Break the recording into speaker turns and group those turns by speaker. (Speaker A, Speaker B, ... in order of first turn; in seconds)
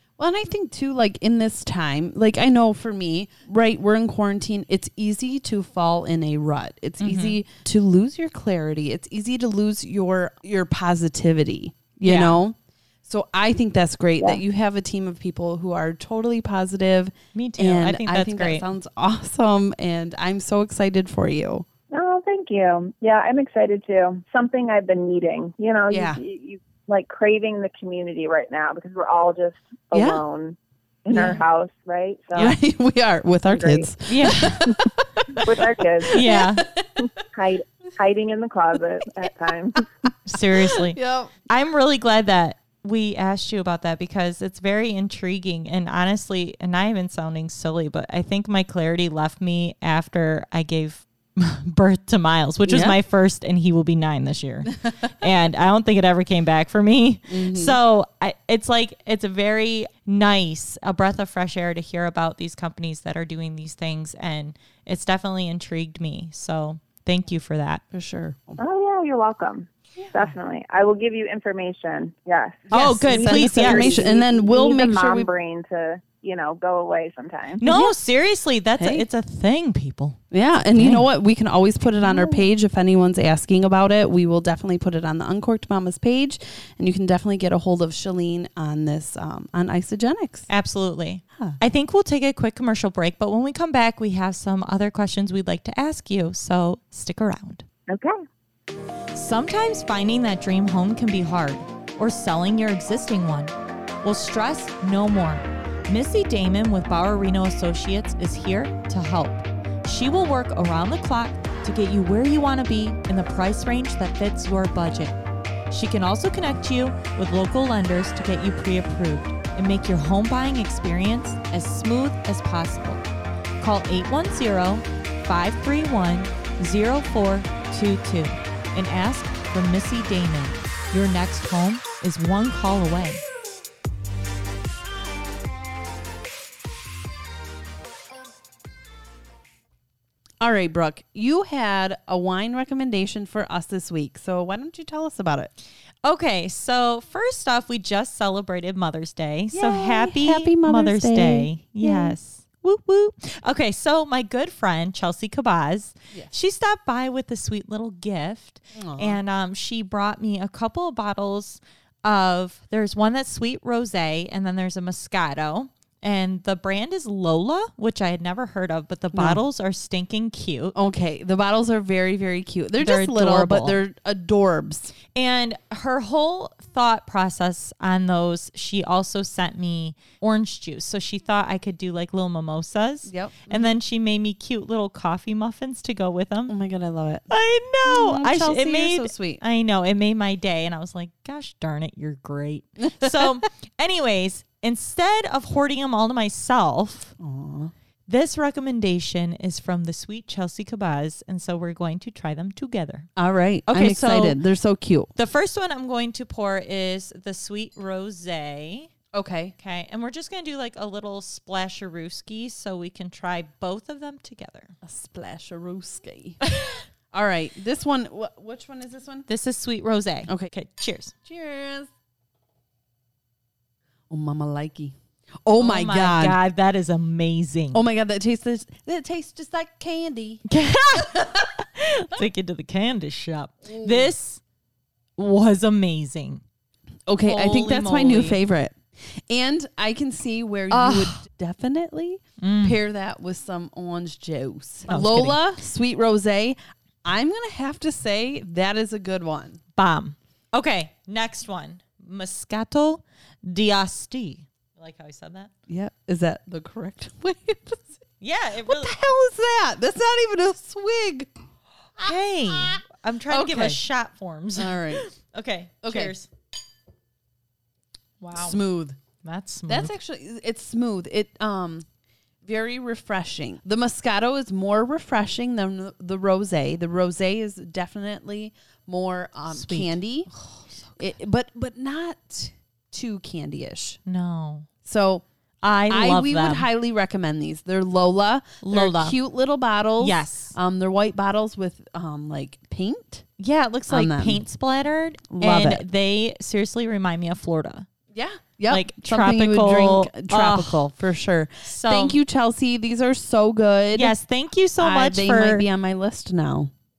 Speaker A: 0.2-21.6, 25.9-26.2, 29.9-30.2, 31.1-31.4, 32.3-37.1, 39.2-41.3, 52.6-53.0, 57.3-57.8, 67.9-68.6, 70.0-70.3, 72.7-75.3, 77.6-77.9, 78.8-79.0, 80.3-90.5, 140.4-145.5, 149.5-152.2, 158.8-159.2, 169.1-169.4, 170.7-174.9, 183.1-183.7, 186.5-187.3, 187.8-189.4, 192.9-193.3, 197.2-197.7, 203.2-205.1, 209.1-209.5, 214.8-216.4, 217.1-219.3, 220.3-220.5, 221.2-221.9, 224.1-226.4, 227.7-230.4, 231.0-231.5, 233.7-234.1, 237.1-249.6, 255.7-258.0, 258.6-261.3, 263.3-263.8, 264.6-265.0, 265.8-266.1, 268.3-269.0, 269.7-271.9, 272.4-280.3, 281.0-284.0, 284.8-285.2, 285.9-293.2, 293.9-294.4, 295.3-295.8, 298.1-304.1, 304.8-306.7
Speaker B: 7.0-7.4, 12.0-12.4, 17.3-18.6, 34.1-34.7, 36.1-36.6, 40.2-41.0, 41.5-67.8, 72.7-74.0, 77.6-80.2, 80.7-81.0, 90.5-97.6, 99.1-115.2, 115.7-123.0, 123.6-133.2, 146.0-170.7, 172.8-173.8, 175.1-186.5, 187.3-197.1, 198.1-203.1, 203.7-204.4, 205.1-208.9, 209.6-214.7, 216.5-216.8, 219.3-221.1, 225.6-227.8, 230.5-234.4, 235.2-236.4, 237.2-238.4, 240.7-241.2, 242.4-242.8, 244.9-245.4, 249.8-255.5, 258.2-258.9, 262.0-266.3, 268.2-268.6, 269.2-269.9, 279.5-281.0, 284.0-284.7, 285.6-286.7, 288.6-289.2, 290.0-290.6, 293.4-297.9, 298.7-300.8, 301.6-302.2, 303.9-305.6
Speaker C: 21.9-32.6, 33.5-36.2, 37.0-39.9, 68.6-77.6, 82.0-82.4, 97.9-98.2